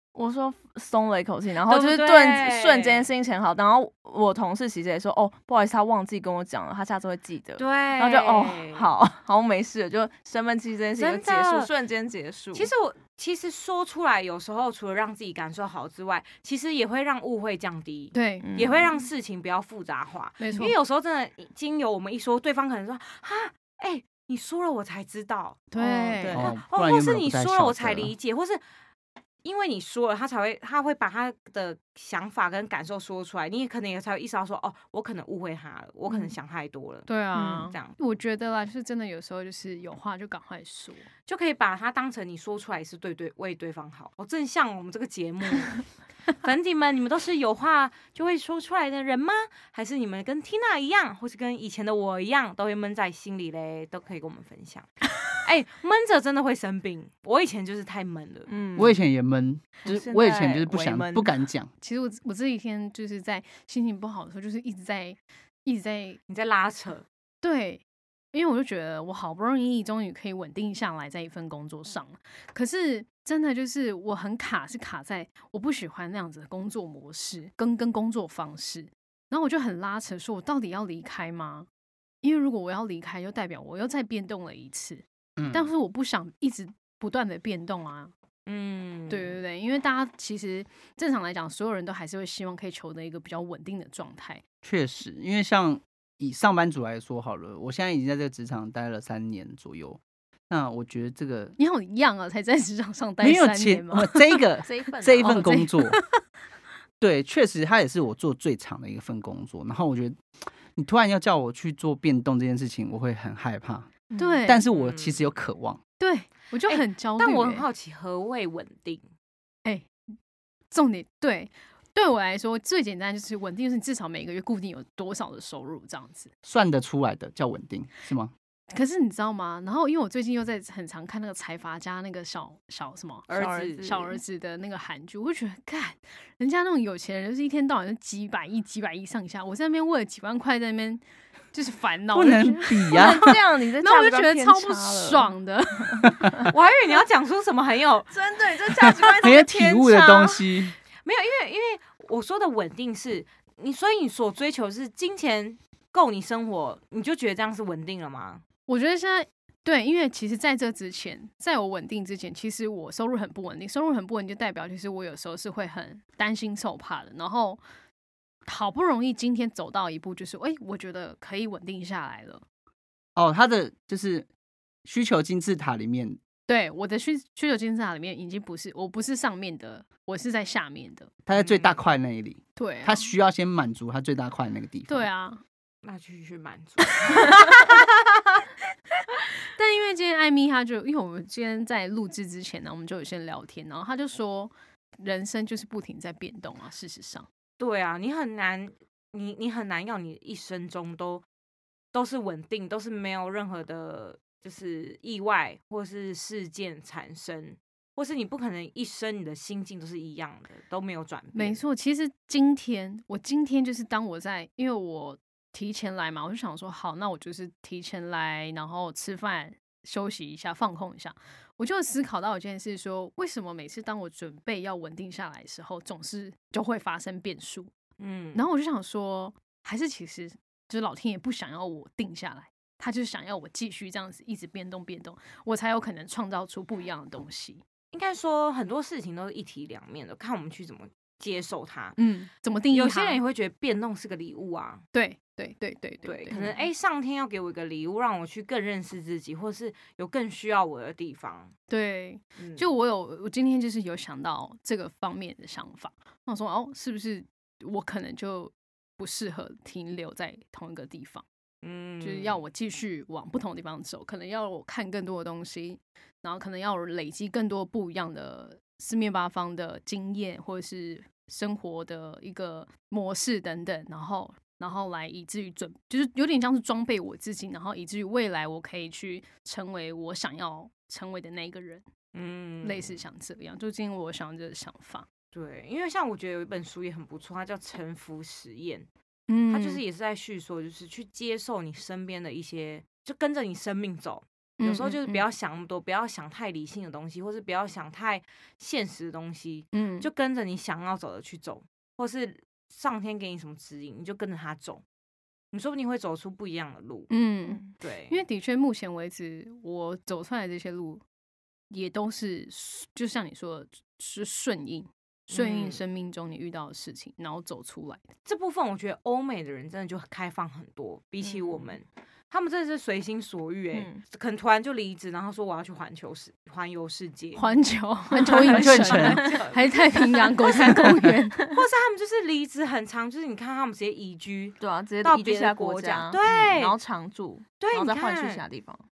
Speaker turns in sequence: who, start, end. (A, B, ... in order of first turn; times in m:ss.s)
0:00.1-0:12.7 A
0:01.7-0:03.1 B
0:07.6-0:08.9 B
0:11.0-0:11.7 B
0:12.5-0:25.7 B
0:18.1-0:18.5 C
0:18.4-0:19.0 A
0:20.4-0:20.7 C
0:25.7-0:26.5 C
0:25.8-0:26.5 A
0:26.3-0:28.1 D
0:26.5-0:28.6 B
0:29.4-0:37.9 B
0:37.1-0:41.1 C
0:37.3-0:37.7 A
0:41.3-0:58.5 B
0:58.5-0:59.0 A
0:58.8-1:01.7 D
0:59.8-1:01.3 A
1:01.8-1:06.2 C
1:06.3-1:07.0 B
1:07.4-1:21.7 C
1:22.2-1:28.1 C
1:25.4-1:25.7 D
1:28.4-1:29.3 B
1:29.1-1:34.4 C
1:34.6-1:41.5 D
1:41.6-1:44.4 C
1:43.2-1:46.0 D
1:44.6-1:45.6 A
1:45.2-1:46.2 C
1:47.0-1:50.2 D
1:50.7-1:53.9 D
1:54.1-1:54.4 A
1:54.1-1:54.6 C
1:54.4-1:55.8 D
1:54.7-1:55.2 B
1:56.0-1:57.6 C
1:56.7-1:59.0 B
1:59.6-1:59.9 C
2:00.7-2:06.3 C
2:06.4-2:08.3 D
2:08.7-2:26.4 C
2:13.3-2:14.0 B
2:13.3-2:14.1 A
2:22.1-2:23.4 D
2:22.9-2:25.3 A
2:26.4-2:28.1 B
2:28.1-2:30.5 A
2:28.8-2:30.8 D
2:31.0-2:38.4 B
2:38.7-2:47.6 C
2:48.4-2:52.4 C
2:53.2-2:54.3 D
2:54.8-2:56.2 D
2:56.5-3:01.1 C
3:01.2-3:05.1 D
3:01.4-3:01.8 B
3:02.6-3:03.1 C
3:04.9-3:05.4 C
3:05.8-3:07.4 B
3:07.1-3:07.5 C
3:09.5-3:17.3 C
3:17.6-3:21.2 B
3:21.9-3:31.6 B
3:31.3-3:47.7 C
3:48.0-3:48.5 B
3:48.3-3:57.6 C
3:57.9-4:02.0 B
4:02.0-4:03.2 C
4:02.7-4:04.8 B
4:04.9-4:06.5 C
4:06.0-4:11.5 B
4:06.3-4:06.6 A
4:11.7-4:21.2 C
4:12.4-4:12.6 B
4:21.6-4:22.4 B
4:22.0-4:41.8 C
4:42.1-4:43.0 B
4:42.6-4:45.0 C
4:45.3-4:48.9 B
4:49.3-4:49.8 C
4:49.5-5:04.8 B
4:54.6-4:55.2 C
4:59.7-5:00.1 C
5:05.5-5:07.1 B
5:07.1-5:11.0 C
5:07.8-5:08.2 B
5:11.7-5:18.0 C
5:15.3-5:15.8 B
5:18.2-5:27.5 B
5:21.2-5:21.7 A
5:23.7-5:24.0 A
5:27.3-5:31.4 C
5:28.2-5:36.8 B
5:28.5-5:29.3 D
5:28.9-5:29.4 A
5:30.3-5:31.6 A
5:34.6-5:38.8 A
5:37.6-5:38.4 B